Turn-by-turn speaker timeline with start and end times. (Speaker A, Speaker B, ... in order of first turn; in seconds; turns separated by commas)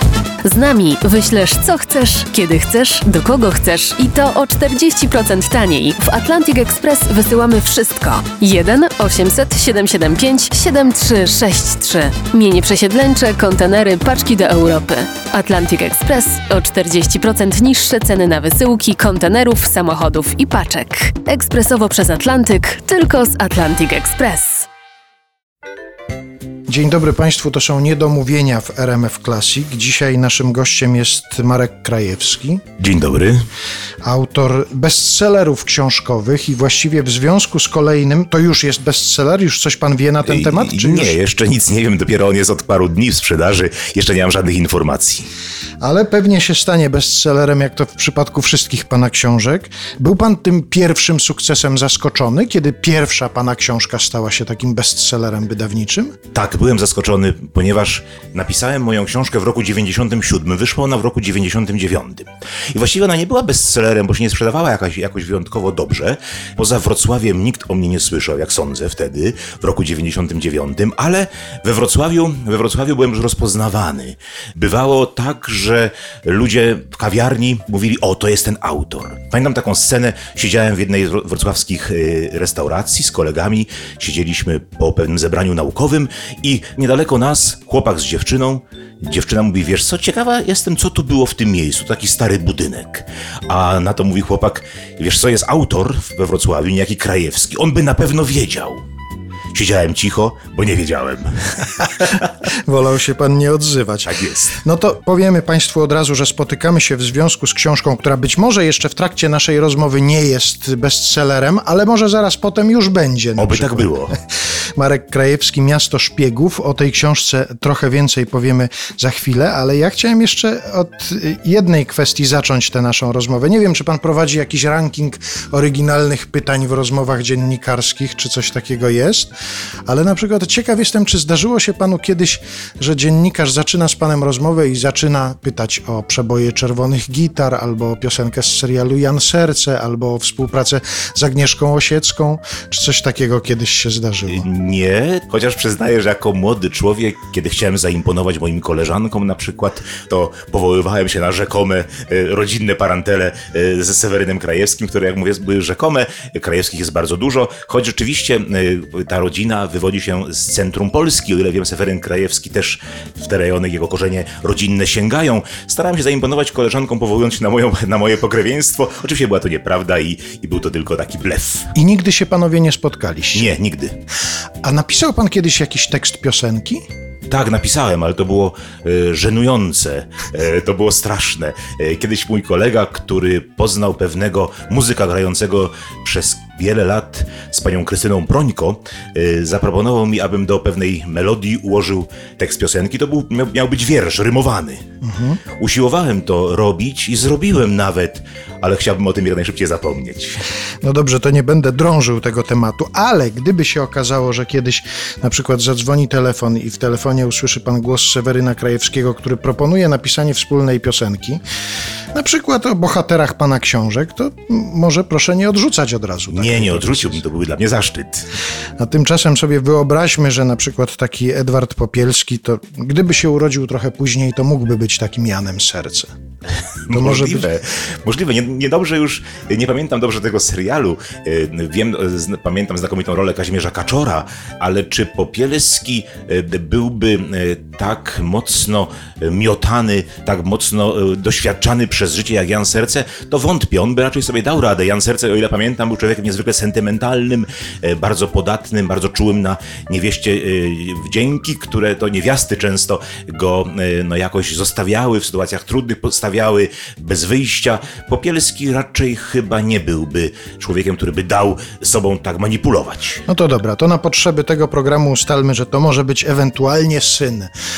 Speaker A: 0.4-24.7, Speaker B: 26.7-32.6, Speaker C: 32.8-33.4, Speaker B: 34.0-41.2, Speaker C: 40.2-45.3, Speaker B: 45.8-56.1, Speaker C: 56.3-98.8, Speaker C: 99.5-102.2, Speaker B: 102.7-114.1, Speaker C: 104.0-104.6, Speaker C: 113.4-114.1, Speaker B: 114.8-129.3, Speaker B: 129.8-144.4, Speaker C: 144.3-171.7, Speaker B: 171.7-173.5, Speaker C: 173.3-174.0, Speaker B: 174.6-176.8, Speaker C: 177.3-194.8, Speaker B: 195.0-195.4, Speaker C: 195.5-200.4, Speaker B: 200.8-211.4, Speaker B: 212.1-217.2, Speaker C: 216.3-218.3, Speaker B: 218.8-226.1, Speaker C: 226.8-263.2, Speaker B: 226.9-227.5, Speaker B: 263.3-267.5